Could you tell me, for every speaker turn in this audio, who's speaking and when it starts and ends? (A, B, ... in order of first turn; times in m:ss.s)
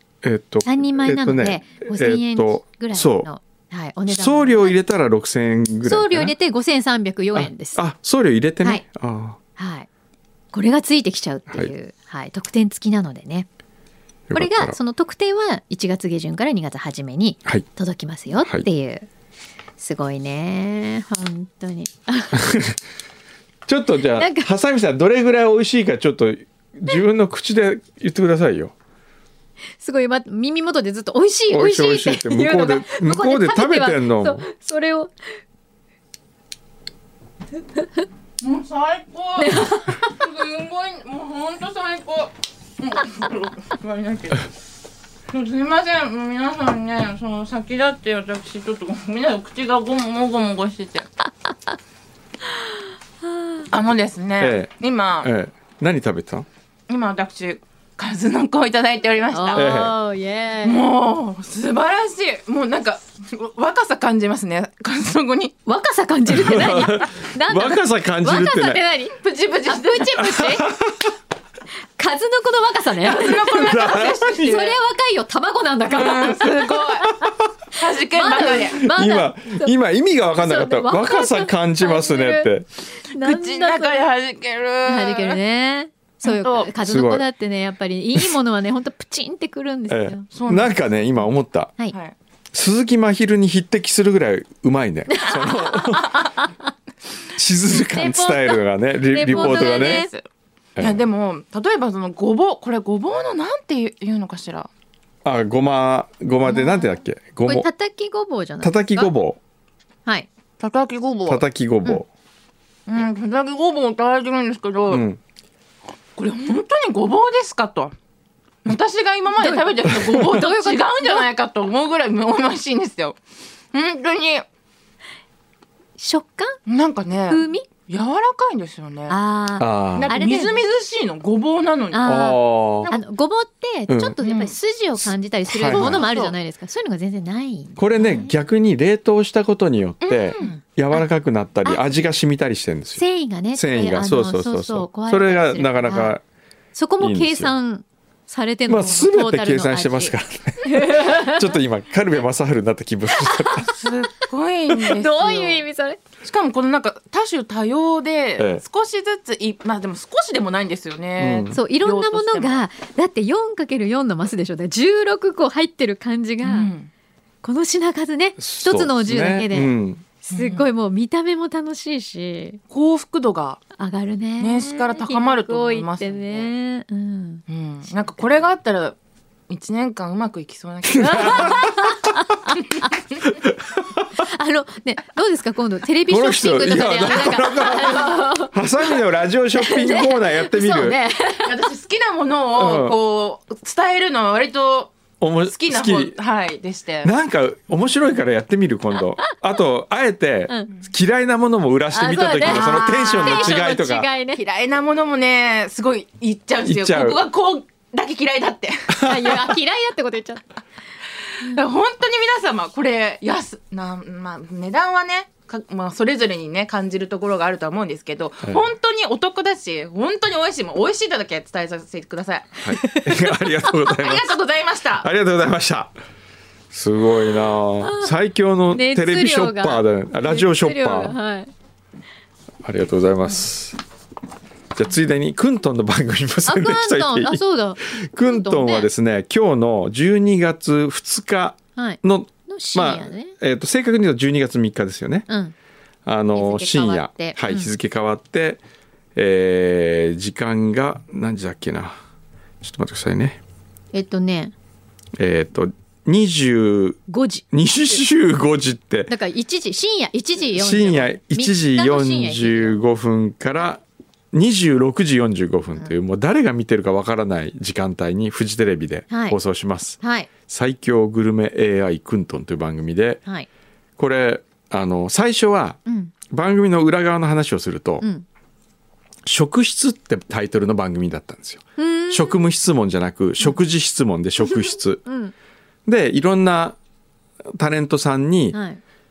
0:00.2-0:03.3 A
0:00.6-0:04.8 B
0:04.1-0:06.3 A
0:05.8-0:07.8 B
0:07.4-0:09.4 A
0:09.6-0:09.9 B
0:10.5-0:13.5 B
0:14.3-0:14.8 A
0:14.3-0:19.1 B
0:19.8-0:22.5 B
0:22.3-0:22.8 A
0:23.7-0:28.7 A
0:24.2-0:24.5 B
0:29.8-0:35.1 B
0:31.5-0:34.5 A
0:38.4-0:44.5 C
0:39.4-0:40.2 B
0:45.3-0:51.1 C
0:53.3-0:53.7 B
0:53.7-0:55.3 C
0:54.4-0:56.5 A
0:56.9-0:59.7 C
0:59.3-1:00.8 B
0:59.6-0:59.9 A
1:00.6-1:05.6 C
1:05.7-1:10.6 B
1:06.3-1:08.8 A
1:09.2-1:10.6 C
1:10.2-1:11.1 A
1:12.0-1:17.3 B
1:13.0-1:14.8 C
1:13.5-1:14.4 A
1:15.9-1:17.1 C
1:17.7-1:18.8 C
1:18.1-1:19.7 B
1:18.8-1:22.7 A
1:20.4-1:24.1 B
1:23.1-1:25.4 C
1:24.9-1:30.3 B
1:26.2-1:26.7 C
1:26.8-1:27.3 A
1:29.9-1:31.8 A
1:30.3-1:30.8 C
1:32.5-1:36.4 A
1:35.1-1:36.5 B
1:37.3-1:40.1 A
1:37.9-1:40.1 B
1:39.2-1:40.2 C
1:40.8-1:41.0 A
1:40.8-1:44.7 C
1:45.2-1:47.7 A
1:47.4-1:49.1 B
1:48.6-1:49.4 A
1:50.6-1:51.4 C
1:51.3-1:52.1 A
1:52.9-1:55.0 C
1:54.9-1:55.2 A
1:56.2-1:58.0 C
1:58.6-2:03.2 C
1:59.4-2:01.3 B
2:03.7-2:04.4 C
2:06.0-2:06.6 B
2:06.7-2:09.2 C
2:07.3-2:07.7 B
2:09.1-2:10.6 B
2:09.6-2:10.2 A
2:09.9-2:13.0 C
2:11.9-2:18.3 B
2:12.0-2:12.9 A
2:13.9-2:14.2 A
2:14.2-2:14.6 C
2:15.5-2:16.0 A
2:15.6-2:16.4 C
2:17.8-2:26.2 A
2:20.0-2:20.6 C
2:23.0-2:26.2 B
2:26.8-2:31.6 B
2:27.0-2:27.5 A
2:28.7-2:33.8 A
2:33.2-2:33.7 B
2:33.6-2:35.6 C
2:34.7-2:36.0 B
2:36.2-2:42.6 C
2:41.2-2:41.6 A
2:41.5-2:46.7 B
2:46.4-2:46.9 C
2:47.4-2:52.6 B
2:48.4-2:50.0 A
2:50.3-2:50.7 C
2:52.7-2:53.6 C
2:53.8-2:57.4 B
2:54.4-2:56.5 C
2:57.5-2:59.0 C
2:59.5-3:01.8 C
3:00.9-3:01.7 A
3:01.0-3:02.9 B
3:03.2-3:04.1 A
3:04.2-3:09.0 B
3:06.1-3:11.0 A
3:09.6-3:11.7 B
3:11.4-3:14.9 C
3:12.5-3:13.0 A
3:15.2-3:16.2 A
3:15.5-3:17.1 C
3:17.0-3:24.1 A
3:21.9-3:24.4 B
3:22.4-3:23.7 C
3:24.3-3:29.2 C
3:26.6-3:27.2 A
3:28.9-3:29.4 A
3:29.0-3:30.4 B
3:31.4-3:45.1 C
3:42.6-3:44.3 A
3:45.0-3:45.9 A
3:46.7-3:51.2 A
3:47.8-3:48.1 B
3:48.7-3:51.5 B
3:52.6-3:53.8 A
3:54.8-4:05.3 A
3:56.5-3:58.9 B
4:01.8-4:03.4 B
4:05.3-4:05.5 B
4:06.1-4:08.6 A
4:06.3-4:07.7 B
4:09.2-4:12.0 A
4:12.6-4:13.4 A
4:13.9-4:14.5 B
4:15.2-4:17.0 A
4:17.1-4:18.0 B
4:17.5-4:19.1 A
4:19.1-4:22.8 B
4:20.5-4:33.2 A
4:29.1-4:29.4 B
4:30.0-4:30.3 B
4:34.0-4:35.8 A
4:35.9-4:36.1 B
4:36.3-4:38.0 A
4:39.2-4:45.0 A
4:41.8-4:42.4 B
4:44.4-4:45.3 B
4:45.9-4:46.8 A
4:47.6-4:48.6 A
4:48.5-4:48.8 B